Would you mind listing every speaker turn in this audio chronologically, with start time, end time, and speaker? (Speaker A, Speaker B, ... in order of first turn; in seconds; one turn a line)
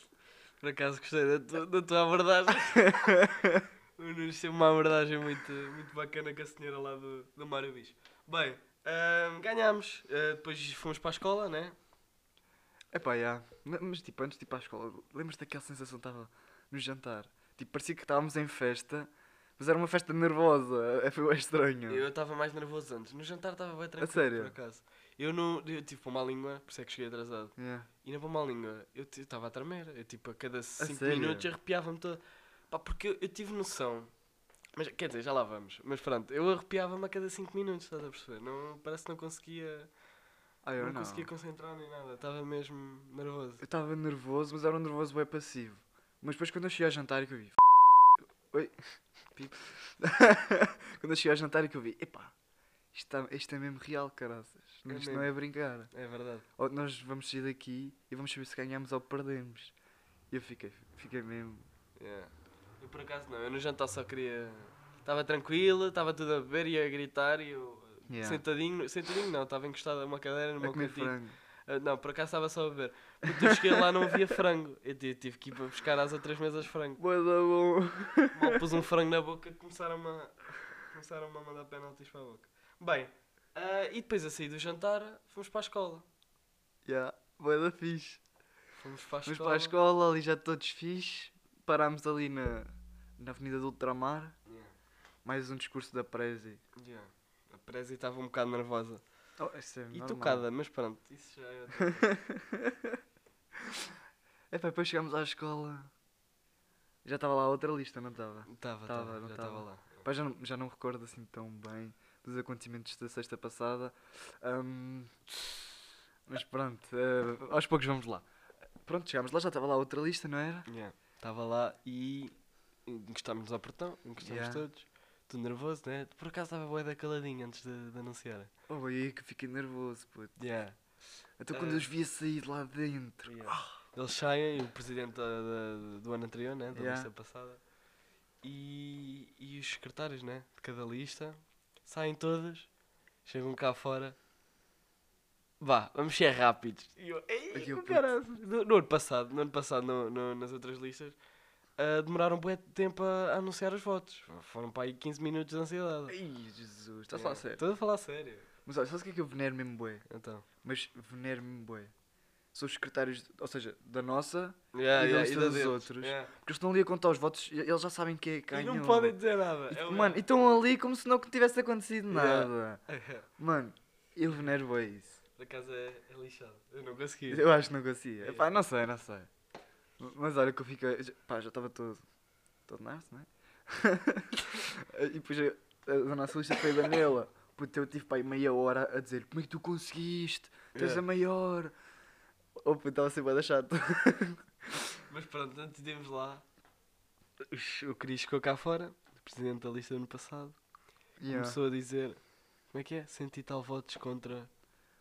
Speaker A: 0.6-3.2
Speaker B: 2.6-3.7
Speaker A: 4.0-11.8
Speaker B: 12.9-22.1
Speaker A: 21.9-34.1
Speaker B: 24.0-24.5
Speaker B: 27.6-27.9
Speaker B: 30.8-31.5
Speaker A: 34.7-39.9
Speaker B: 40.6-41.3
Speaker A: 40.8-43.6
Speaker B: 43.6-47.6
Speaker B: 48.5-48.8
Speaker B: 49.3-52.3
Speaker B: 52.9-55.9
Speaker A: 54.9-55.3
Speaker A: 55.9-56.5
Speaker B: 56.6-59.7
Speaker B: 60.3-61.7
Speaker A: 62.0-77.0
Speaker B: 68.1-68.4
Speaker B: 70.6-71.3
Speaker B: 73.2-74.3
Speaker B: 77.0-78.8
Speaker A: 78.3-86.0
Speaker B: 86.8-88.2
Speaker A: 88.8-89.7
Speaker B: 89.2-94.3
Speaker A: 94.5-94.7
Speaker B: 95.2-96.6
Speaker A: 96.8-99.0
Speaker B: 99.4-100.5
Speaker A: 99.9-102.2
Speaker B: 101.7-103.0
Speaker B: 103.6-103.9
Speaker B: 104.5-105.9
Speaker B: 107.0-118.2
Speaker A: 108.5-110.0
Speaker B: 118.8-120.7
Speaker A: 120.7-128.5
Speaker B: 124.2-124.7
Speaker B: 128.7-130.3
Speaker A: 130.4-130.8
Speaker B: 131.4-133.6
Speaker A: 131.5-131.9
Speaker A: 133.2-137.6
Speaker B: 136.7-137.1
Speaker A: 138.4-142.7
Speaker A: 143.2-144.2
Speaker A: 145.6-151.2
Speaker B: 147.5-148.1
Speaker A: 151.8-156.1
Speaker B: 156.1-157.6
Speaker A: 157.1-158.5
Speaker B: 158.7-160.0
Speaker A: 160.1-160.4
Speaker B: 160.6-161.9
Speaker B: 162.5-169.2
Speaker A: 164.7-166.3
Speaker A: 168.5-170.2
Speaker B: 169.7-172.8
Speaker A: 172.1-173.3
Speaker B: 173.4-175.2
Speaker A: 175.4-177.5
Speaker B: 177.3-179.3
Speaker A: 178.2-178.5
Speaker B: 180.0-182.0
Speaker B: 182.7-191.7
Speaker A: 190.7-191.0
Speaker B: 192.6-195.0
Speaker A: 195.1-196.4
Speaker A: 197.4-200.6
Speaker B: 201.2-201.6
Speaker A: 201.3-202.2
Speaker A: 202.7-204.5